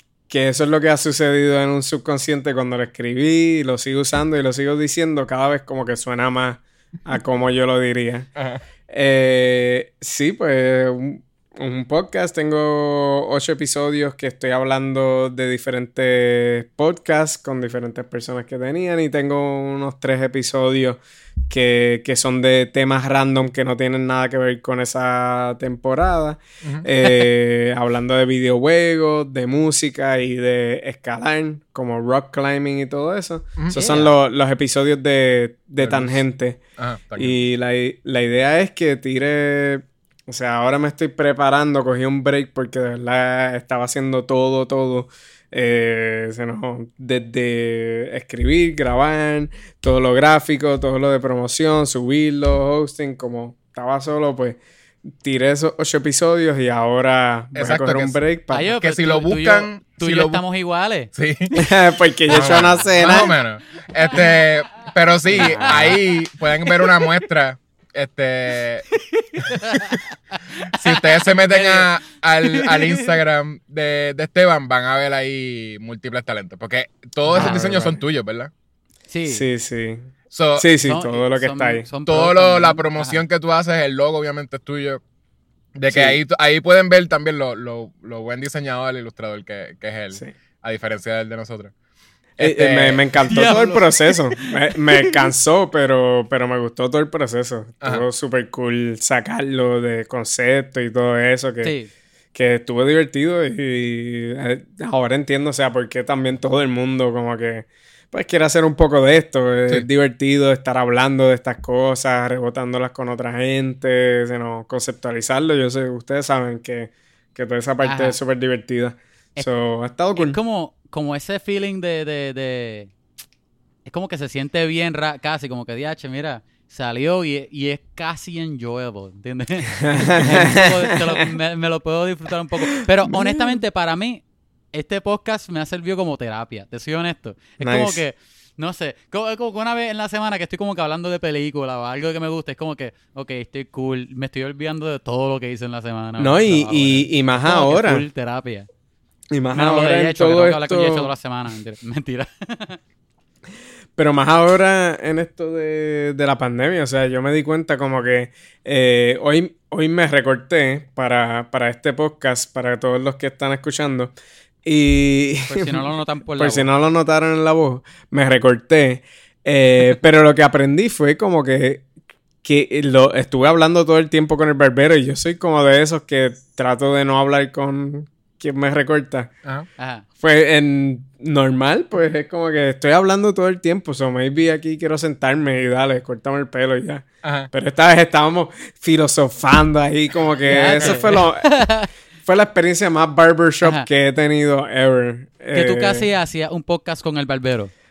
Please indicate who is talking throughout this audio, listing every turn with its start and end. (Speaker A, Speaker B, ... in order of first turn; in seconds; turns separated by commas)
Speaker A: 0.3-8.3, Speaker B: 8.4-8.6, Speaker A: 8.9-36.6, Speaker B: 26.6-26.9, Speaker B: 33.6-33.9, Speaker C: 33.7-34.1, Speaker B: 35.8-36.2, Speaker B: 36.8-37.5, Speaker A: 37.2-54.6, Speaker A: 55.2-58.7, Speaker B: 57.5-60.4, Speaker C: 58.5-61.1, Speaker B: 61.1-61.6, Speaker A: 61.5-63.4, Speaker B: 62.3-70.0, Speaker A: 65.3-66.0, Speaker C: 65.4-66.0, Speaker C: 69.2-71.9, Speaker B: 70.8-78.5, Speaker C: 72.4-73.2, Speaker A: 77.3-78.0, Speaker C: 79.1-79.5, Speaker A: 79.3-81.9, Speaker B: 80.3-80.7, Speaker C: 80.8-83.2, Speaker B: 82.1-85.0, Speaker B: 85.8-91.7, Speaker A: 85.9-86.2, Speaker B: 92.4-93.1, Speaker A: 92.4-101.7, Speaker C: 93.2-95.2, Speaker B: 97.8-98.1, Speaker C: 101.6-101.9, Speaker A: 102.3-120.4, Speaker C: 117.8-118.2, Speaker C: 120.2-122.9, Speaker C: 123.8-148.7, Speaker A: 129.8-131.0, Speaker A: 133.1-133.6, Speaker A: 137.6-138.0, Speaker A: 146.2-148.1, Speaker A: 149.3-151.1, Speaker C: 149.5-152.8, Speaker A: 154.0-165.8, Speaker C: 165.5-166.7, Speaker A: 166.4-171.9, Speaker A: 172.4-179.3, Speaker C: 179.8-180.0, Speaker A: 180.2-191.5, Speaker B: 187.2-187.5, Speaker C: 190.4-191.9, Speaker B: 190.6-191.0, Speaker A: 192.2-196.1, Speaker C: 195.5-197.7